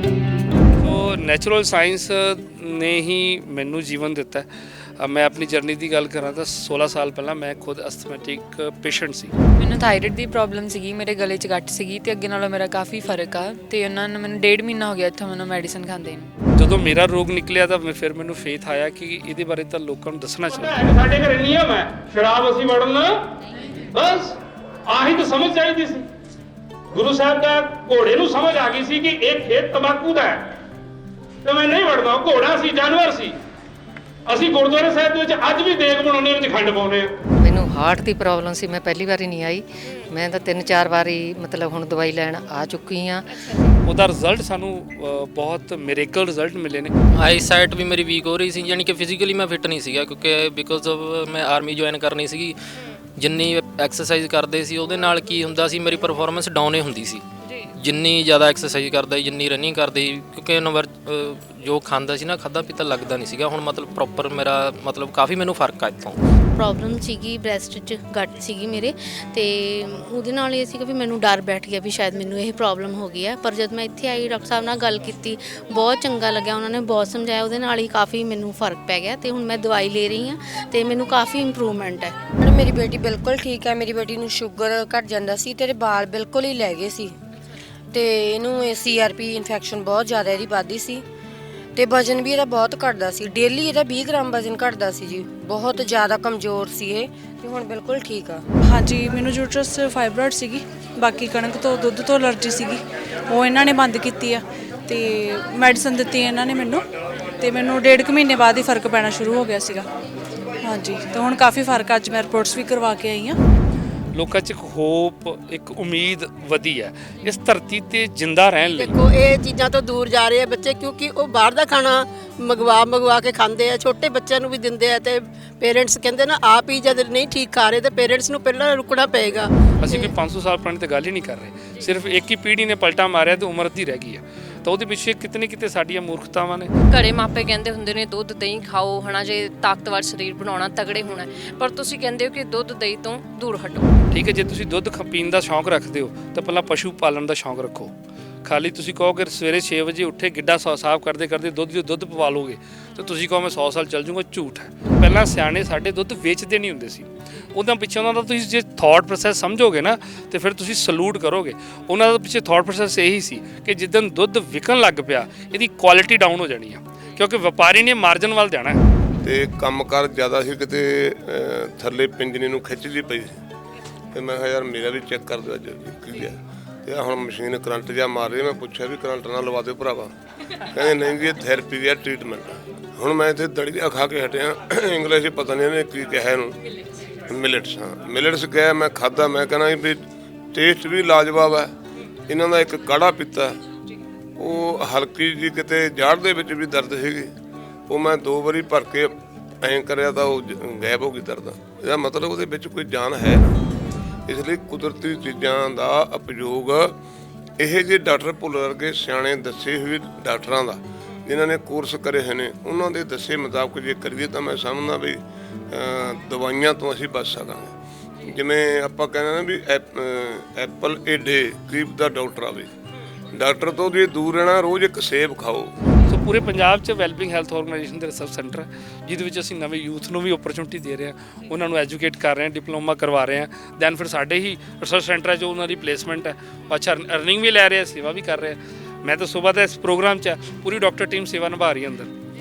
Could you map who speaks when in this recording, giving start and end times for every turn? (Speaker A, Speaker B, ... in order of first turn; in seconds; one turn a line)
Speaker A: 0.7-4.5
Speaker A: 5.0-9.3
Speaker B: 9.6-16.3
Speaker A: 16.6-20.9
Speaker C: 20.6-23.1
Speaker C: 23.9-24.3
Speaker C: 24.9-26.0
Speaker C: 26.9-30.4
Speaker C: 31.4-33.3
Speaker C: 34.3-37.1
Speaker D: 37.4-43.2
Speaker A: 43.8-46.9
Speaker E: 47.2-52.5
Speaker E: 53.2-66.2
Speaker F: 66.6-82.1
Speaker G: 82.4-87.2
Speaker G: 87.9-91.0
Speaker G: 91.8-98.4
Speaker H: 98.7-106.8
Speaker H: 107.4-109.8
Speaker H: 110.6-113.4
Speaker A: 114.1-119.0
Speaker I: 118.8-130.1
Speaker A: 129.8-136.7
Speaker J: 136.9-143.9
Speaker A: 144.1-147.9
Speaker A: 148.4-168.8
Speaker K: 169.2-173.3
Speaker K: 174.1-180.1
Speaker K: 180.7-186.6
Speaker K: 187.3-190.0
Speaker K: 190.5-191.7
Speaker K: 192.3-193.6
Speaker K: 194.4-197.3
Speaker K: 197.9-203.6
Speaker K: 204.3-206.9
Speaker K: 207.6-215.2
Speaker K: 215.7-222.7
Speaker K: 223.3-225.7
Speaker A: 226.1-242.1